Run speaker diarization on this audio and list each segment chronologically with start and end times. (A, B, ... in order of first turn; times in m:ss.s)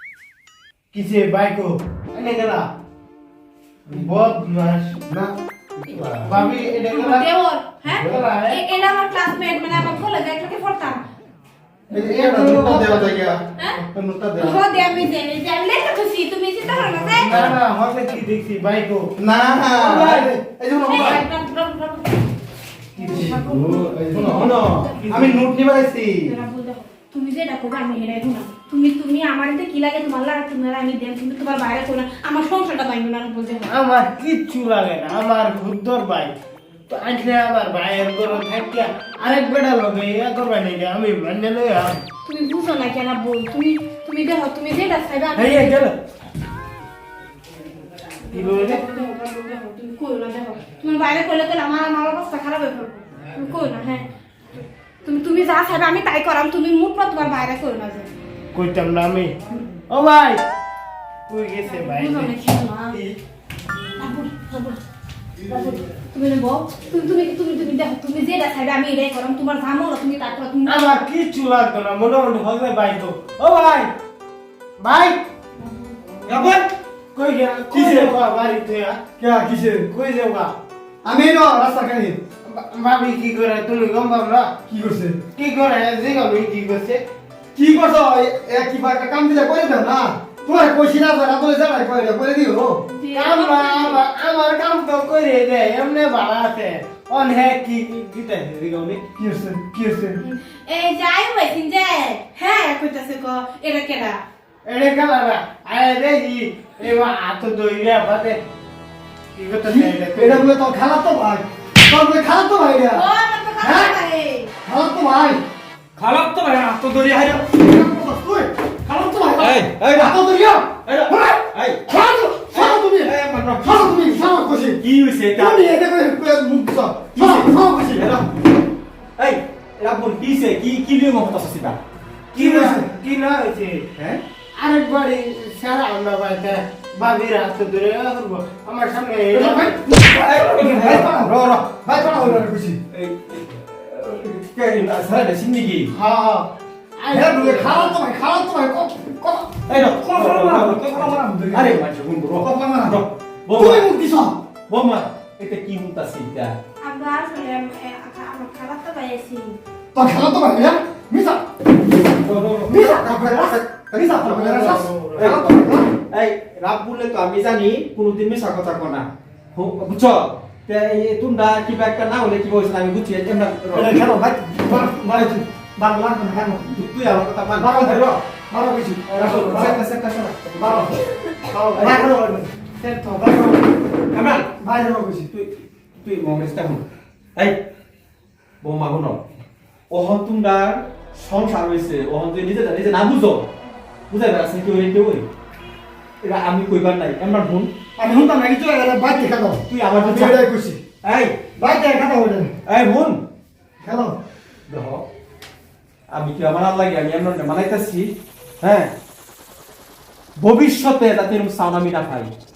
0:00.9-0:02.7 A
0:03.9-0:05.0 A
0:05.1-0:06.3 B
0:06.2-0:07.2 A
0:06.4-0:11.0 C
0:07.9-0:08.2 B
0:07.9-0:08.6 A
0:11.9-0:14.6 B
0:11.9-0:13.3 A
0:14.4-0:17.4 C
0:17.0-0:19.1 A
0:19.2-0:21.2 B
0:19.7-0:20.3 A
0:20.8-0:22.2 C
0:23.0-0:23.5 A
0:23.0-0:24.9 C
0:23.1-0:26.3 B
0:24.2-0:25.5 A
0:26.2-0:33.7 C
0:33.7-0:36.3 A
0:36.9-0:42.0 A
0:42.2-0:45.8 C
0:45.4-0:46.0 A
0:48.3-0:54.1 C
0:48.3-0:48.8 A
0:55.0-0:58.1 C
0:58.5-0:59.4 A
0:59.9-1:00.4 A
1:01.3-1:02.3 A
1:01.6-1:03.0 C
1:04.0-1:04.8 C
1:05.4-1:10.8 C
1:10.6-1:13.3 A
1:13.4-1:13.9 D
1:14.8-1:15.2 A
1:16.2-1:16.7 D
1:17.1-1:19.0 A
1:17.7-1:18.2 B
1:19.2-1:19.9 B
1:19.9-1:20.5 A
1:21.0-1:22.2 B
1:22.4-1:24.5 A
1:24.7-1:25.2 B
1:25.3-1:27.0 A
1:27.5-1:32.8 B
1:32.9-1:34.0 C
1:33.1-1:39.0 A
1:39.2-1:40.2 B
1:40.2-1:44.2 C
1:44.6-1:48.4 A
1:49.3-1:50.5 A
1:49.6-1:53.0 B
1:52.9-1:54.5 C
1:53.6-1:54.0 B
1:54.6-1:55.4 B
1:56.0-1:57.1 D
1:56.5-2:04.8 B
1:59.4-2:00.2 D
2:00.8-2:01.8 D
2:02.5-2:04.0 D
2:04.8-2:05.6 D
2:05.4-2:08.2 B
2:07.1-2:08.2 D
2:09.2-2:11.8 D
2:12.3-2:13.8 A
2:12.3-2:12.9 B
2:13.9-2:14.2 D
2:14.5-2:19.7 A
2:19.3-2:22.8 B
2:19.8-2:25.9 D
2:25.9-2:28.0 A
2:27.1-2:31.8 B
2:29.7-2:33.9 D
2:32.4-2:34.4 B
2:34.7-2:36.6 D
2:36.8-2:39.6 C
2:39.9-2:41.4 B
2:42.2-2:43.2 D
2:42.6-2:45.9 B
2:44.1-2:45.4 A
2:45.2-2:45.6 D
2:46.1-2:54.0 D
2:53.7-2:56.8 B
2:56.7-2:58.2 D
2:57.5-2:59.8 B
2:59.1-3:00.9 D
3:00.5-3:02.5 B
3:01.5-3:01.9 A
3:01.7-3:02.1 D
3:02.8-3:03.6 A
3:04.1-3:04.5 D
3:04.5-3:05.3 B
3:05.3-3:06.8 D
3:08.6-3:09.2 D
3:09.9-3:13.5 D
3:14.1-3:15.2 D
3:16.2-3:17.8 D
3:18.0-3:20.8 B
3:19.7-3:20.4 D
3:21.0-3:21.4 D
3:21.6-3:22.5 B
3:22.6-3:23.2 D
3:23.8-3:24.1 B
3:24.7-3:25.0 D
3:26.1-3:28.9 D
3:30.4-3:32.3 D